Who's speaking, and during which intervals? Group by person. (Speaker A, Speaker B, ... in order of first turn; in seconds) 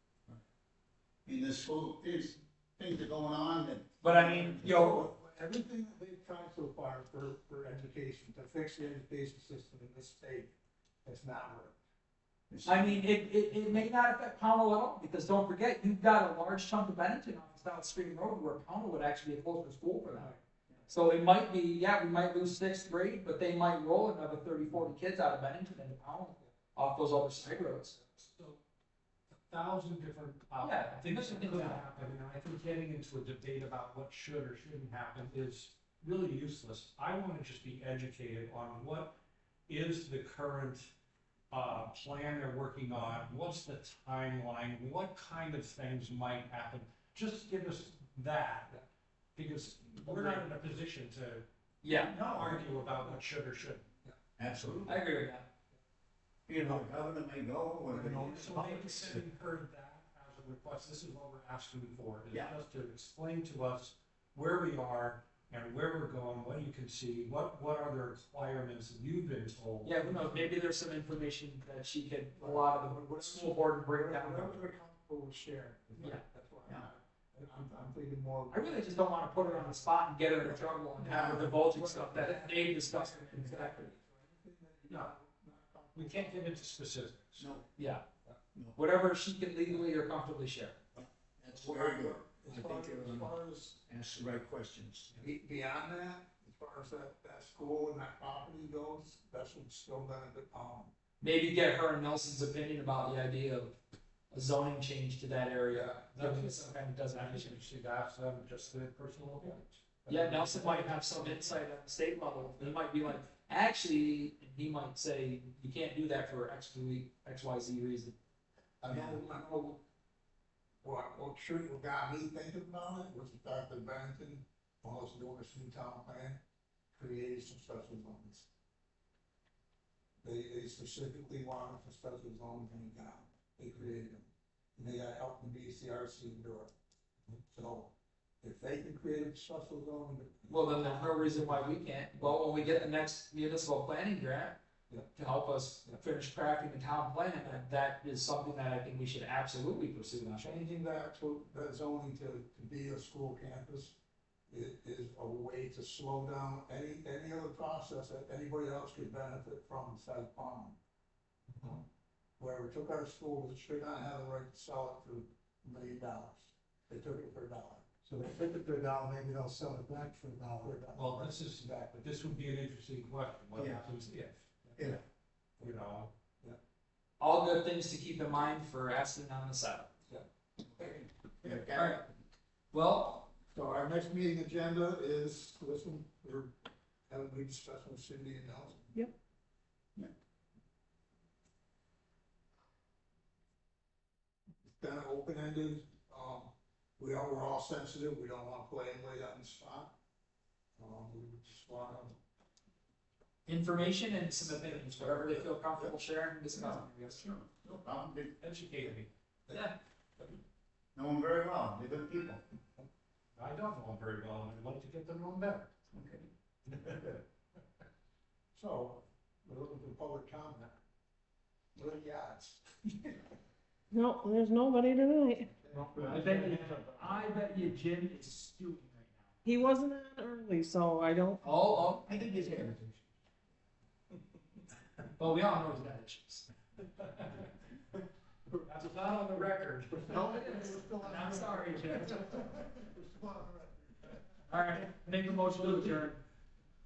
Speaker A: 1.3-4.6, 12.5-13.0, 52.1-52.6, 54.4-55.0, 56.5-59.2, 81.0-81.5, 87.4-87.6, 91.0-93.3, 93.9-95.2, 118.9-119.2, 173.6-173.9, 181.4-182.0, 206.6-208.3, 210.9-212.4, 232.1-233.0
Speaker B: 4.0-5.1, 12.6-20.3, 20.9-28.0, 30.6-31.9, 50.0-50.4, 51.8-52.1, 54.8-55.5, 69.8-74.6, 78.5-83.9, 87.8-88.0, 88.8-90.8, 101.2-103.8, 104.3-107.6, 110.1-118.2, 140.5-144.6, 145.1-150.6, 177.2-179.9, 181.7-182.1, 182.7-183.3, 203.5-207.3, 209.5-209.8, 226.0-229.3, 231.4-232.2, 235.2-236.5, 240.1-242.5, 244.5-246.2
Speaker C: 4.0-11.8, 57.9-59.1, 72.4-79.7, 80.4-86.7, 91.5-93.8, 95.2-100.9, 105.7-106.1, 118.8-119.8, 120.8-126.4, 127.0-128.5, 130.2-136.7, 137.5-141.8, 150.4-154.0, 154.5-160.8, 162.4-171.7, 174.6-174.9, 183.5-186.5, 187.1-188.9, 194.7-199.9, 200.8-202.2, 204.9-205.3, 209.5-210.3, 218.5-220.8, 221.8-223.2, 225.7-227.0, 239.9-244.2
Speaker D: 28.2-28.6, 29.3-39.1, 39.7-40.9, 41.5-48.9, 49.4-53.9, 58.2-70.3, 86.0-87.6, 106.2-111.4, 170.9-174.9, 175.6-176.1, 208.4-209.1, 213.4-215.7, 216.7-217.1, 237.1-237.4, 238.6-240.2
Speaker E: 223.9-225.6, 229.4-231.4